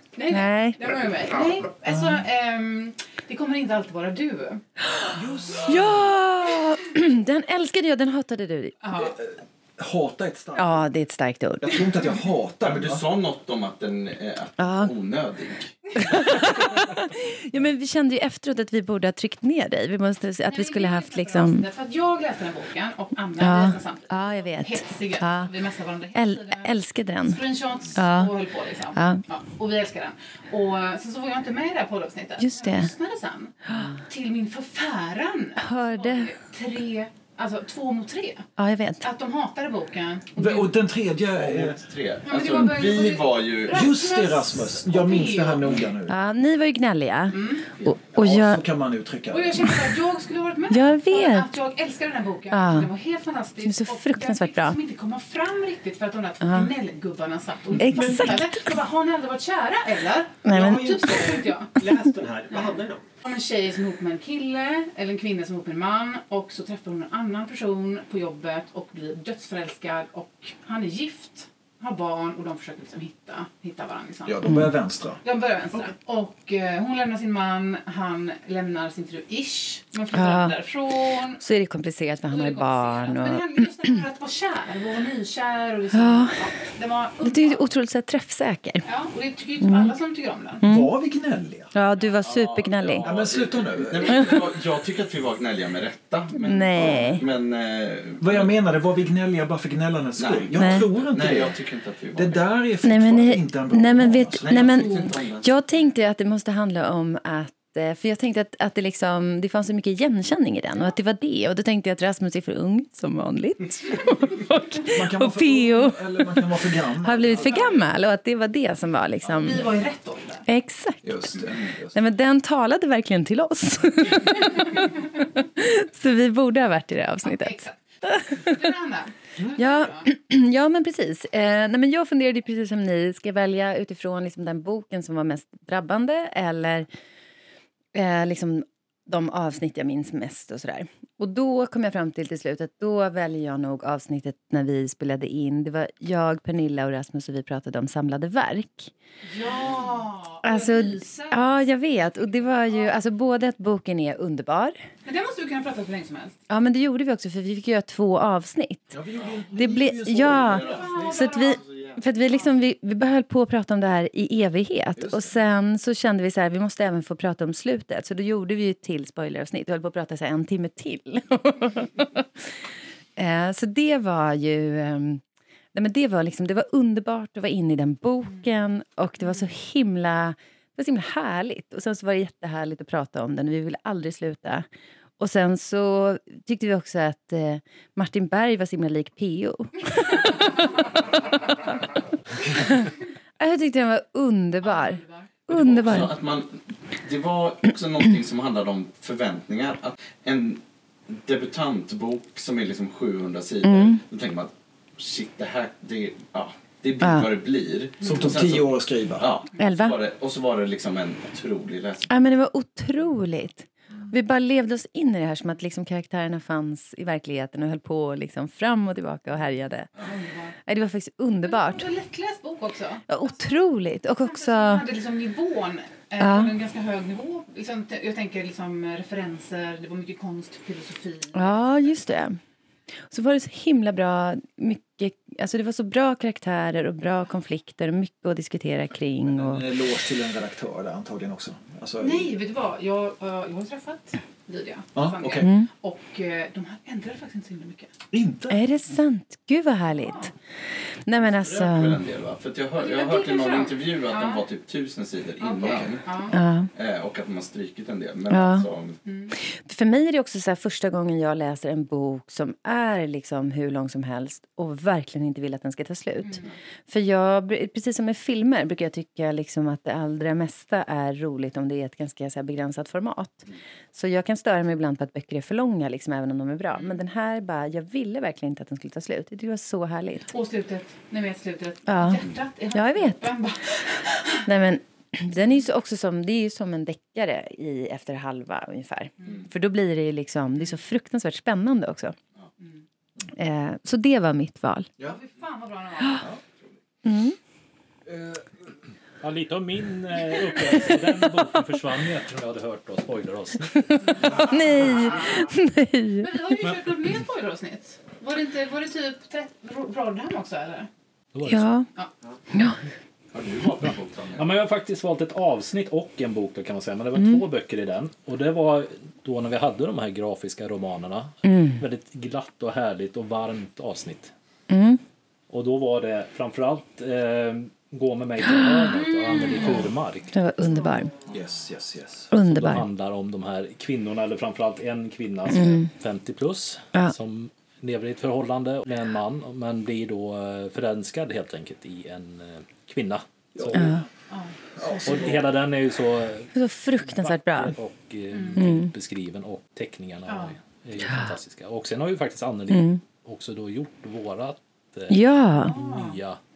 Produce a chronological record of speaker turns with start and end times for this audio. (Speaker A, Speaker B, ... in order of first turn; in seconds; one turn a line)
Speaker A: 0.1-4.6
Speaker B: 0.3-0.8
Speaker C: 1.8-2.2
Speaker B: 4.8-8.8
Speaker C: 5.1-6.1
Speaker A: 8.8-9.1
Speaker C: 8.9-10.9
Speaker B: 10.6-11.8
Speaker C: 11.6-13.0
Speaker D: 12.6-15.7
Speaker B: 14.6-14.9
Speaker B: 15.9-21.6
Speaker A: 20.5-26.7
Speaker B: 23.4-25.5
Speaker B: 26.1-27.4
Speaker A: 27.2-33.5
Speaker B: 27.9-28.3
Speaker B: 28.9-29.2
Speaker B: 32.4-32.9
Speaker B: 33.6-34.0
Speaker A: 34.1-38.5
Speaker B: 35.6-36.3
Speaker B: 38.6-39.0
Speaker A: 39.0-40.7
Speaker C: 40.4-41.8
Speaker D: 41.3-43.9
Speaker A: 42.2-45.7
Speaker C: 43.7-46.2
Speaker B: 46.1-48.6
Speaker A: 47.3-47.6
Speaker C: 48.1-49.8
Speaker A: 49.3-61.7
Speaker B: 50.7-51.5
Speaker B: 52.5-52.9
Speaker B: 53.6-54.8
Speaker B: 56.4-56.7
Speaker B: 57.8-58.6
Speaker B: 60.4-61.1
Speaker E: 60.5-63.0
Speaker A: 62.5-74.5
Speaker C: 74.2-75.2
Speaker B: 74.4-74.7
Speaker A: 75.2-81.4
Speaker B: 80.1-80.5
Speaker B: 81.4-83.7
Speaker A: 82.3-87.6
Speaker B: 85.9-86.5
Speaker B: 87.2-88.8
Speaker A: 88.8-90.6
Speaker B: 89.6-89.9
Speaker B: 90.6-90.9
Speaker C: 90.6-91.7
Speaker B: 91.7-93.1
Speaker D: 92.0-98.5
Speaker C: 93.0-94.4
Speaker B: 94.1-94.3
Speaker B: 96.3-97.2
Speaker C: 98.2-101.6
Speaker D: 100.2-102.4
Speaker B: 100.5-100.8
Speaker C: 102.1-104.8
Speaker B: 102.8-116.5
Speaker D: 104.4-105.4
Speaker C: 114.9-117.7
Speaker B: 117.0-119.8
Speaker A: 119.2-120.4
Speaker B: 120.5-121.4
Speaker C: 121.0-122.0
Speaker B: 121.9-128.6
Speaker A: 127.2-130.1
Speaker B: 129.5-136.9
Speaker B: 137.9-148.9
Speaker A: 149.2-151.6
Speaker B: 150.4-154.8
Speaker A: 155.1-156.3
Speaker B: 156.5-159.0
Speaker C: 158.9-160.9
Speaker B: 159.6-172.3
Speaker D: 160.2-162.0
Speaker A: 160.7-161.6
Speaker C: 164.9-165.4
Speaker B: 173.2-175.2
Speaker B: 175.7-184.7
Speaker B: 185.2-190.7
Speaker B: 192.5-196.1
Speaker A: 194.6-195.3
Speaker D: 195.5-212.1
Speaker B: 203.6-204.0
Speaker B: 207.0-207.3
Speaker C: 208.0-209.3
Speaker B: 209.6-210.0
Speaker B: 212.1-219.9
Speaker A: 220.0-220.5
Speaker B: 220.6-221.9
Speaker A: 221.4-223.6
Speaker B: 223.1-224.8
Speaker A: 224.2-231.6
Speaker B: 226.2-226.5
Speaker B: 231.3-232.4
Speaker B: 233.1-239.6
Speaker C: 239.3-242.3
Speaker A: 242.0-247.9
Speaker C: 244.9-245.5
Speaker B: 245.4-245.7
Speaker C: 248.1-248.6
Speaker B: 248.5-250.3
Speaker A: 250.0-250.3
Speaker B: 251.1-252.0
Speaker D: 251.2-256.1
Speaker A: 252.8-254.4
Speaker A: 255.4-256.4
Speaker B: 256.3-256.7
Speaker D: 256.7-259.0
Speaker B: 258.3-258.7
Speaker A: 259.0-259.3
Speaker B: 259.4-280.3
Speaker A: 280.3-284.4
Speaker B: 281.9-283.3
Speaker B: 284.4-292.1
Speaker B: 293.4-294.9
Speaker A: 295.0-296.2
Speaker B: 297.0-297.4
Speaker C: 298.1-298.5
Speaker F: 299.2-304.3
Speaker B: 304.0-306.3
Speaker A: 306.2-310.9
Speaker F: 311.3-311.7
Speaker B: 311.4-311.9
Speaker B: 312.5-312.8
Speaker D: 313.3-314.5
Speaker F: 314.4-324.3
Speaker B: 317.1-317.4
Speaker B: 321.4-321.8
Speaker B: 324.7-325.0
Speaker F: 325.5-330.3
Speaker B: 328.5-328.9
Speaker A: 329.0-329.9
Speaker B: 330.3-331.1
Speaker C: 331.3-332.3
Speaker B: 332.3-332.9
Speaker F: 332.4-344.0
Speaker B: 335.5-335.9
Speaker C: 343.5-344.0
Speaker B: 343.7-344.0
Speaker A: 344.3-344.5
Speaker C: 344.8-345.4
Speaker F: 345.0-356.4
Speaker B: 346.5-347.8
Speaker A: 348.3-348.6
Speaker B: 348.6-348.9
Speaker A: 350.2-350.6
Speaker B: 352.7-353.0
Speaker B: 355.1-355.7
Speaker A: 355.6-356.2